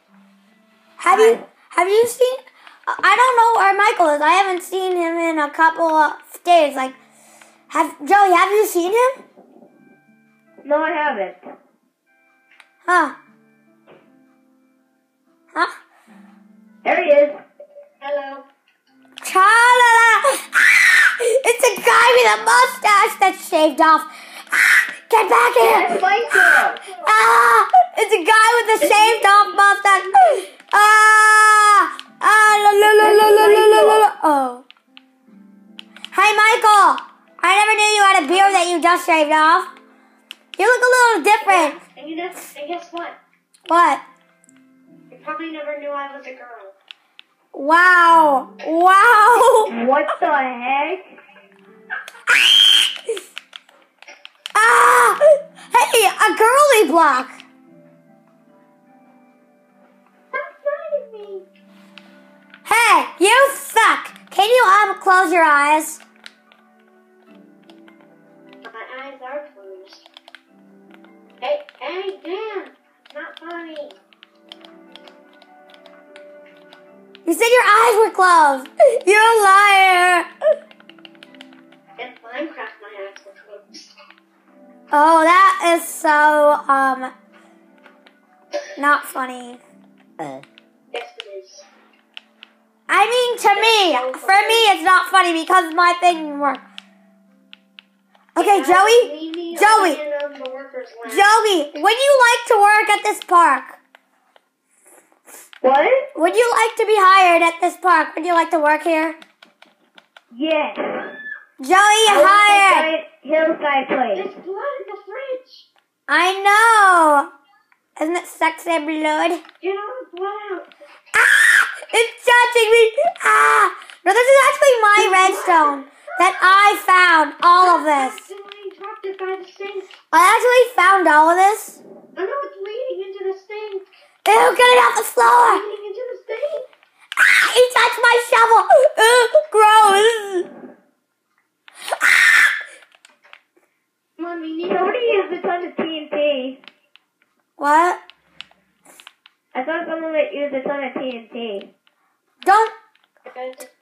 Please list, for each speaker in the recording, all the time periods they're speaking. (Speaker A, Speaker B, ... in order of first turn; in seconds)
Speaker A: 1.0-7.0, 7.7-9.2, 12.8-13.2, 19.2-26.0, 26.9-34.6, 36.1-39.7, 40.6-41.8, 43.7-44.0, 47.5-49.7, 52.3-52.9, 54.5-57.4, 62.6-66.0, 77.2-80.3, 84.9-87.1, 88.8-89.6, 92.9-96.6, 98.3-100.0, 101.0-103.8, 106.1-109.2, 111.6-112.9, 116.1-117.3, 118.0-119.4, 121.1-128.2, 130.1-131.8, 134.2-135.6, 137.2-140.5, 142.0-142.5, 147.6-148.0, 152.4-152.7
Speaker B: 1.1-1.4, 10.6-11.4, 16.8-17.4, 25.6-26.8, 33.0-34.0, 49.7-51.0, 105.6-106.1, 110.3-111.1, 112.0-114.3, 144.7-146.6, 149.5-151.7
Speaker C: 18.0-18.4, 28.8-30.4, 41.4-43.2, 45.1-46.7, 60.3-61.5, 68.6-70.0, 71.4-74.0, 82.0-83.9, 90.9-91.7, 93.5-94.7, 98.4-101.3, 114.1-115.7, 119.6-120.7, 125.0-126.5, 127.6-129.9, 132.1-133.8, 135.4-136.7, 144.2-145.3, 153.2-153.7